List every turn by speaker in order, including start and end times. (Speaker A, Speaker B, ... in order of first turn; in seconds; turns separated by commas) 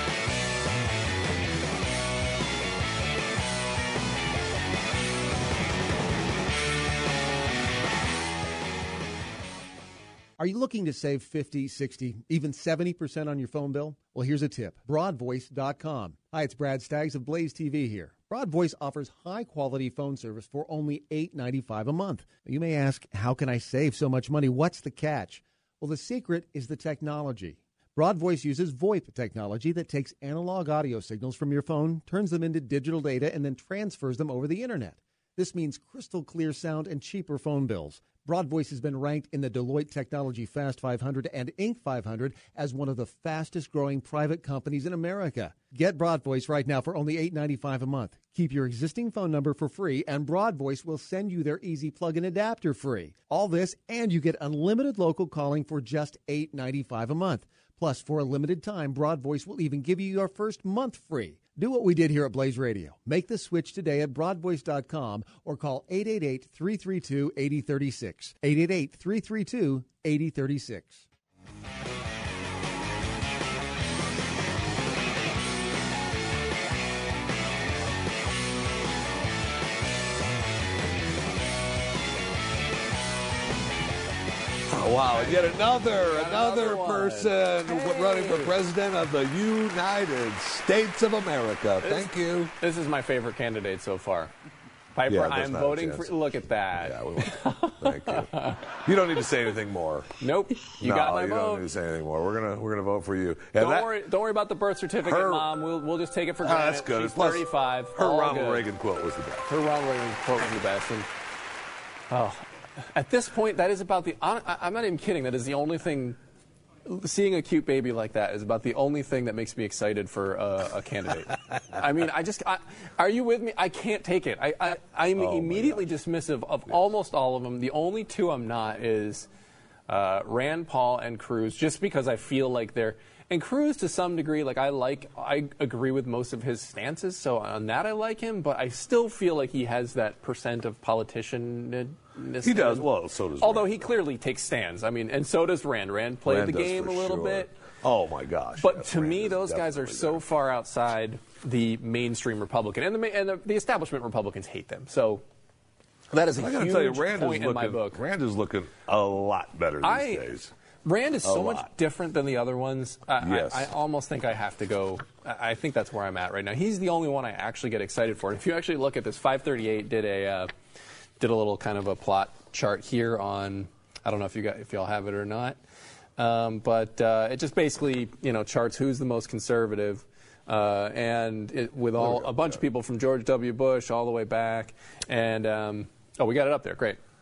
Speaker A: 10.4-71.0, Speaker B: 84.7-92.5, Speaker C: 85.1-88.6, Speaker C: 91.8-94.3, Speaker C: 95.0-98.7, Speaker B: 95.1-96.1, Speaker B: 96.8-100.1, Speaker C: 100.2-101.7, Speaker B: 100.8-103.9, Speaker C: 103.6-108.7, Speaker B: 105.0-105.6, Speaker B: 106.4-109.5, Speaker C: 109.5-111.1, Speaker C: 112.1-116.2, Speaker C: 116.9-129.3, Speaker B: 125.2-125.9, Speaker C: 129.9-147.5, Speaker B: 142.4-143.9, Speaker B: 146.2-150.2, Speaker C: 148.6-155.2, Speaker C: 156.1-158.0, Speaker B: 156.4-160.5, Speaker C: 159.8-160.3, Speaker C: 160.8-170.5, Speaker B: 161.2-161.7, Speaker B: 163.2-163.7, Speaker C: 171.2-175.6, Speaker C: 176.2-187.0, Speaker B: 182.0-182.6